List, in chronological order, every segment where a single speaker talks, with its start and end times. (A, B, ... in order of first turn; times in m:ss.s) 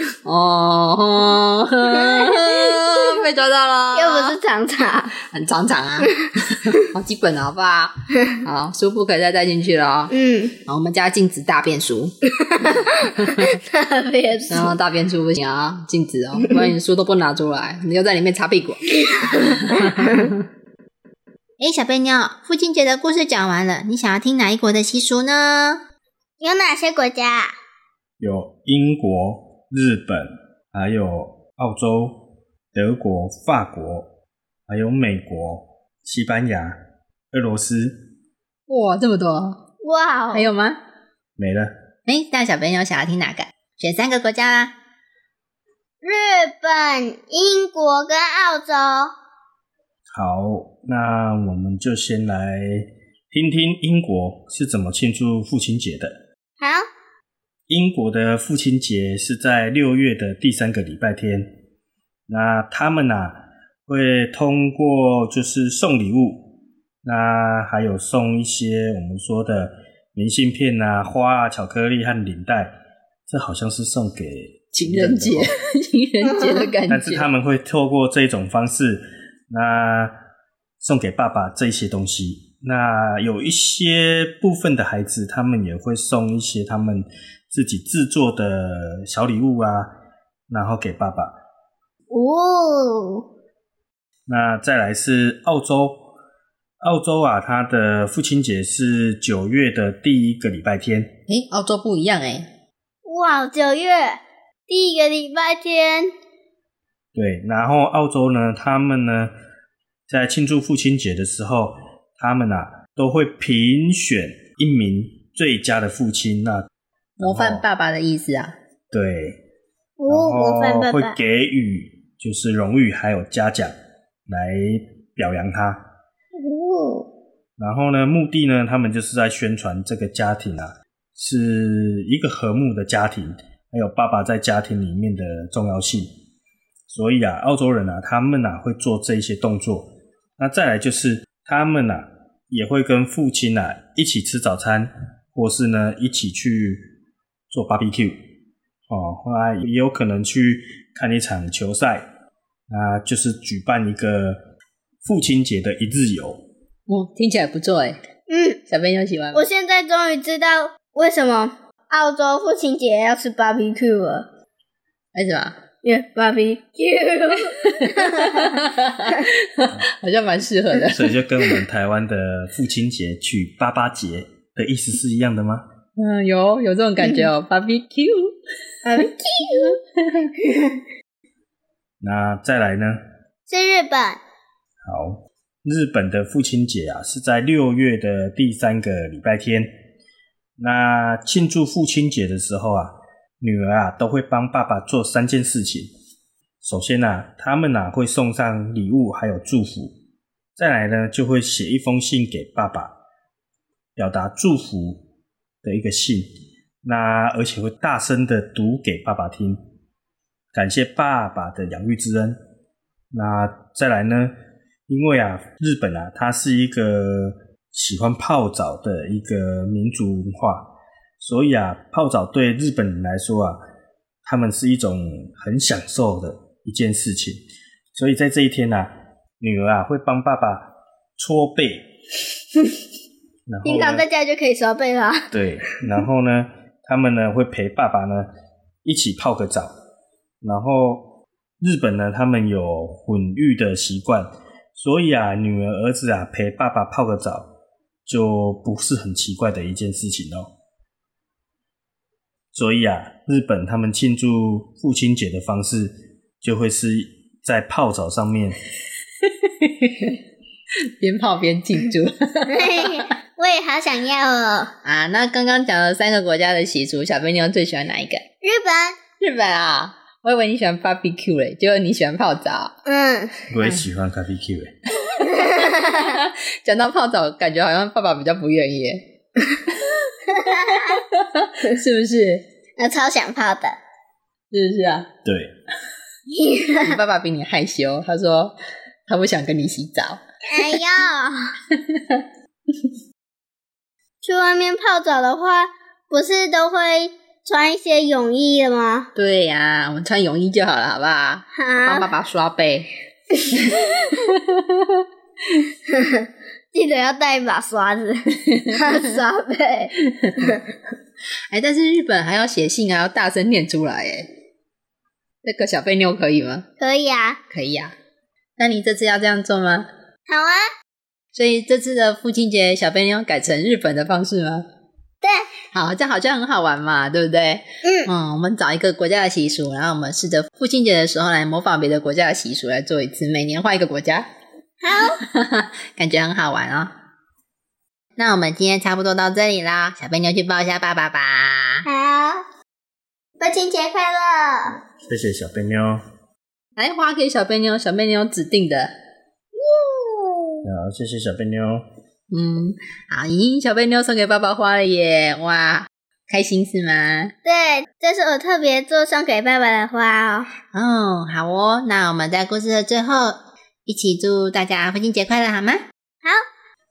0:00.2-0:04.4 A
0:02.0-0:02.4 B
0:03.9-0:05.1 B
0:05.3-0:10.1 A
0:10.1-0:10.6 B
0:10.7-0:12.2 A
0:12.4-0:14.7 B
0:12.8-0:13.4 A
0:14.5-0:20.4 A
0:19.1-0:20.3 B
0:21.6-0:25.8 A
0:26.4-0:27.6 B
0:28.2-0:34.1 C
0:34.7-0:36.8 C
0:37.3-0:38.0 C
0:38.7-0:39.6 A
0:39.8-0:40.5 B
0:40.3-0:40.8 A
0:41.4-0:41.7 C
0:42.1-0:44.7 A
0:46.0-0:49.1 B
0:50.1-0:56.1 C
0:56.6-0:56.8 B
0:57.7-1:01.5 C
1:02.3-1:06.5 C
1:07.0-1:12.7 C
1:13.3-1:15.5 C
1:14.8-1:17.3 A
1:16.9-1:20.1 C
1:20.8-1:29.9 C
1:30.5-1:31.3 C
1:32.1-1:33.2 B
1:34.3-1:36.1 C
1:36.8-1:41.1 C
1:41.3-1:42.5 A
1:43.0-1:46.1 B
1:47.2-1:49.3 C
1:50.1-1:56.7 C
1:57.2-1:57.6 C
1:57.2-1:58.5 A
1:58.9-1:59.4 C
2:00.0-2:01.2 B
2:00.1-2:03.7 C
2:04.3-2:05.8 C
2:06.4-2:07.1 B
2:07.6-2:16.1 C
2:16.9-2:26.9 C
2:27.5-2:28.2 C
2:28.9-2:32.1 C
2:32.7-2:34.4 C
2:35.0-2:36.4 C
2:36.9-2:38.0 A
2:38.3-2:38.6 B
2:38.7-2:39.5 A
2:39.3-2:44.2 B
2:45.2-2:45.6 A
2:45.8-2:48.5 B
2:47.8-2:51.6 A
2:50.9-2:55.6 C
2:56.0-3:00.3 A
2:58.9-2:59.6 B
3:02.0-3:03.0 C
3:03.5-3:04.2 B
3:04.8-3:09.7 C
3:10.6-3:15.9 C
3:16.6-3:20.0 C
3:20.6-3:22.9 C
3:24.0-3:25.0 C
3:25.6-3:26.3 C
3:26.8-3:29.6 C
3:30.5-3:32.4 C
3:33.1-3:34.3 C
3:34.9-3:43.6 C
3:44.2-3:47.4 C
3:47.9-3:51.9 C
3:53.5-3:54.1 C
3:53.6-3:55.3 B
3:55.3-3:58.3 C
3:58.8-3:59.7 C
4:00.4-4:07.5 C
4:08.1-4:10.5 C
4:12.5-4:18.6 C
4:19.3-4:20.2 A
4:21.0-4:23.0 A
4:22.5-4:24.7 B
4:24.8-4:28.2 A
4:28.4-4:29.0 B
4:29.2-4:32.7 A
4:32.9-4:33.3 B
4:33.5-4:34.7 C
4:33.6-4:33.9 A
4:35.0-4:39.0 A
4:35.2-4:35.8 B
4:40.4-4:41.0 B
4:40.7-4:42.4 A
4:42.8-4:43.8 B
4:44.5-4:45.1 A
4:45.3-4:45.5 C
4:46.3-4:47.0 B
4:46.8-4:48.6 A
4:49.1-4:50.8 A
4:50.5-4:51.5 B
4:51.8-4:52.2 A
4:54.2-4:59.1 B
4:59.2-5:02.9 A
5:01.6-5:02.1 B
5:05.9-5:09.9 B
5:08.5-5:09.0 A
5:11.5-5:14.3 A
5:15.4-5:16.6 A
5:16.8-5:17.4 B
5:17.5-5:17.9 A
5:18.6-5:19.9 A
5:20.3-5:20.6 B
5:21.3-5:24.6 A
5:25.2-5:25.5 B
5:25.7-5:34.3 A
5:27.8-5:28.1 B
5:34.8-5:35.2 B
5:35.2-5:36.9 A
5:38.2-5:41.8 A
5:41.9-5:42.4 B
5:43.4-5:44.8 B
5:45.1-5:46.0 C
5:46.8-5:48.9 A
5:50.0-5:50.4 B
5:50.6-5:51.8 C
5:52.3-5:57.3 A
5:57.4-6:00.5 B
6:00.7-6:05.8 A